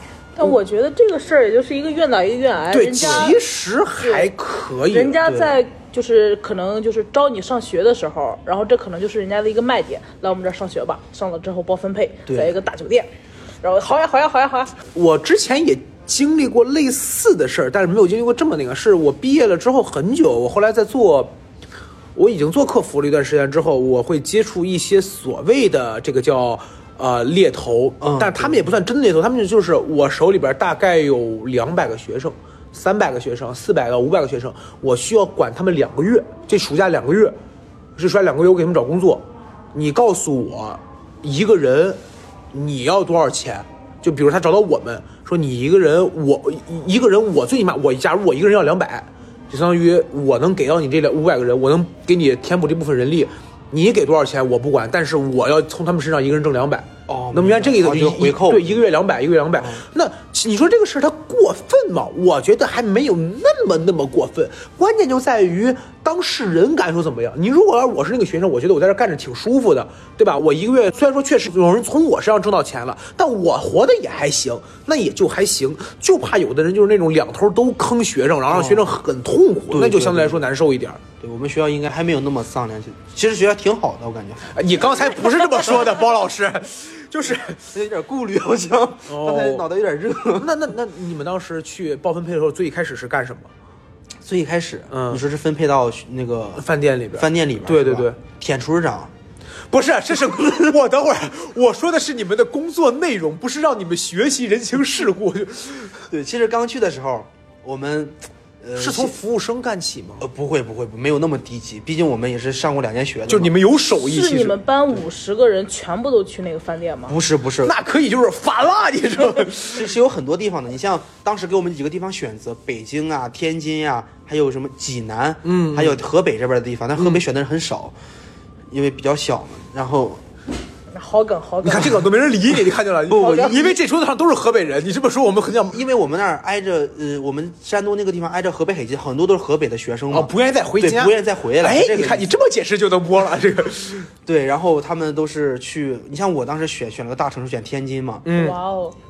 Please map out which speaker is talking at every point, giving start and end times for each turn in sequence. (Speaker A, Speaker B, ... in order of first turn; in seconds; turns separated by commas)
Speaker A: 0.3-3.4, Speaker B: 2.7-5.2, Speaker C: 3.0-3.3, Speaker A: 4.0-4.3, Speaker A: 4.9-13.1, Speaker C: 5.2-5.6, Speaker C: 12.3-12.6, Speaker A: 13.6-14.8, Speaker B: 14.9-21.3, Speaker B: 22.1-37.4, Speaker C: 28.0-28.8, Speaker B: 38.0-42.0, Speaker B: 42.5-81.0, Speaker C: 57.1-58.8, Speaker C: 59.6-59.8, Speaker C: 78.5-78.9, Speaker C: 79.7-80.4, Speaker C: 81.2-85.0, Speaker B: 84.5-87.6, Speaker C: 87.3-90.5, Speaker B: 89.1-89.7, Speaker B: 90.3-93.5, Speaker C: 94.2-99.1, Speaker B: 94.9-95.2, Speaker B: 96.6-98.2, Speaker B: 99.7-106.0, Speaker C: 106.1-109.2, Speaker B: 108.8-110.3, Speaker C: 110.2-113.5, Speaker B: 113.3-114.6, Speaker A: 114.0-117.2, Speaker C: 117.1-117.7, Speaker B: 117.6-119.9, Speaker C: 119.7-127.9, Speaker B: 125.4-126.0, Speaker B: 127.0-127.2, Speaker C: 128.7-130.2, Speaker A: 130.9-132.1, Speaker B: 131.6-135.8, Speaker C: 133.1-133.8, Speaker A: 133.2-133.6, Speaker C: 135.7-142.3, Speaker B: 140.1-144.1, Speaker C: 144.2-148.3, Speaker B: 148.2-148.6, Speaker A: 148.3-148.9